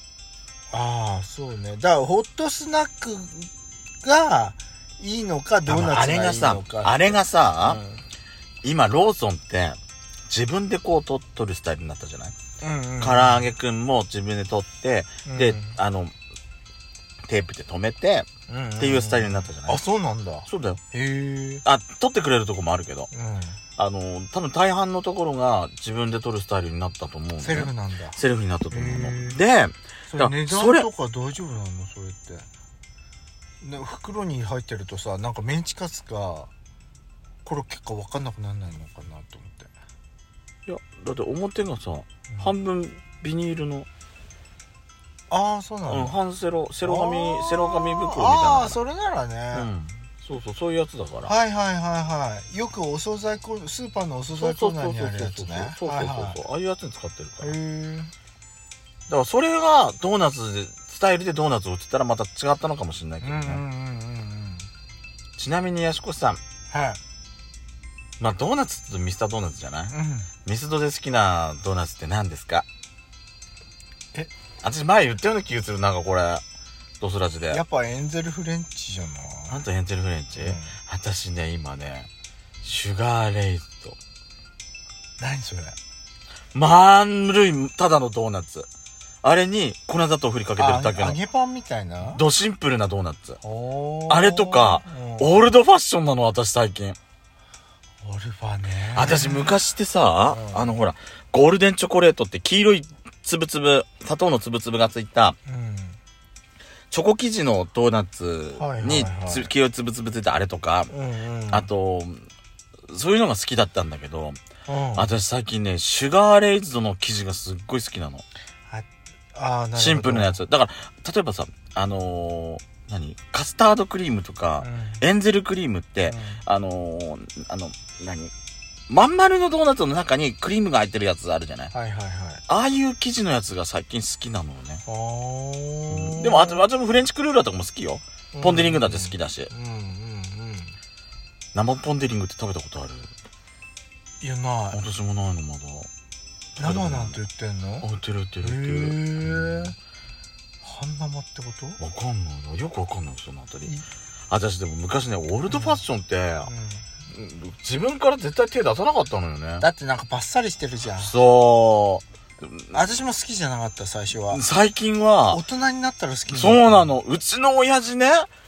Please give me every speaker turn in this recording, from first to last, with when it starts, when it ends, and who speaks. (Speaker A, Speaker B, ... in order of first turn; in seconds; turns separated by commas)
Speaker A: 0.7-3.5, Speaker A: 4.0-8.0, Speaker B: 5.7-7.8, Speaker B: 8.6-9.8, Speaker B: 10.3-12.3, Speaker A: 12.6-13.5, Speaker B: 13.0-16.1, Speaker A: 15.2-15.8, Speaker B: 17.3-19.8, Speaker A: 18.5-21.6, Speaker B: 20.5-20.8, Speaker B: 21.6-23.1, Speaker A: 23.1-23.6, Speaker B: 23.8-30.9, Speaker A: 27.4-28.2, Speaker A: 28.7-29.4, Speaker A: 30.1-32.5, Speaker A: 33.6-36.5, Speaker A: 37.5-39.7, Speaker B: 40.7-43.9, Speaker A: 45.3-46.2, Speaker B: 45.9-48.8, Speaker A: 46.8-49.7, Speaker B: 49.5-51.3, Speaker A: 51.3-56.4, Speaker B: 54.4-57.5, Speaker A: 57.4-58.1, Speaker B: 59.1-63.6, Speaker A: 63.2-64.7, Speaker B: 65.4-66.4, Speaker A: 66.7-67.0, Speaker B: 68.2-72.7, Speaker A: 69.9-70.3, Speaker B: 74.6-76.4, Speaker B: 77.0-77.6, Speaker A: 77.5-79.6, Speaker B: 79.5-82.1, Speaker A: 80.4-80.8, Speaker B: 82.6-84.0, Speaker A: 85.2-85.8, Speaker B: 86.5-88.7, Speaker B: 89.2-91.2, Speaker A: 90.6-92.2, Speaker B: 92.0-93.4, Speaker A: 93.4-95.5, Speaker B: 94.1-97.0, Speaker A: 98.0-99.5, Speaker B: 99.0-105.4, Speaker A: 100.3-100.7, Speaker A: 105.5-106.0, Speaker B: 106.9-110.9, Speaker A: 108.5-109.5, Speaker A: 110.9-111.7, Speaker B: 111.5-112.3, Speaker B: 112.9-114.4, Speaker A: 114.7-115.1, Speaker B: 115.0-118.2, Speaker A: 118.7-120.4, Speaker B: 119.8-128.3, Speaker A: 124.6-125.0, Speaker A: 126.0-126.4, Speaker B: 128.9-131.7, Speaker A: 131.7-132.4, Speaker B: 132.5-134.8, Speaker A: 134.9-136.6, Speaker B: 135.9-139.5, Speaker A: 138.3-140.8, Speaker B: 141.5-143.1, Speaker A: 144.2-144.8, Speaker B: 144.7-145.9, Speaker A: 146.6-147.9, Speaker B: 146.6-147.2, Speaker B: 147.8-149.7, Speaker A: 148.4-149.8, Speaker A: 150.6-151.8, Speaker B: 151.8-153.7, Speaker B: 154.3-156.5, Speaker A: 155.5-155.8, Speaker A: 156.4-156.9, Speaker B: 157.1-159.7, Speaker A: 159.6-161.1, Speaker B: 160.9-163.0, Speaker A: 162.7-164.4, Speaker B: 164.3-165.4, Speaker A: 165.3-166.9, Speaker B: 166.3-168.3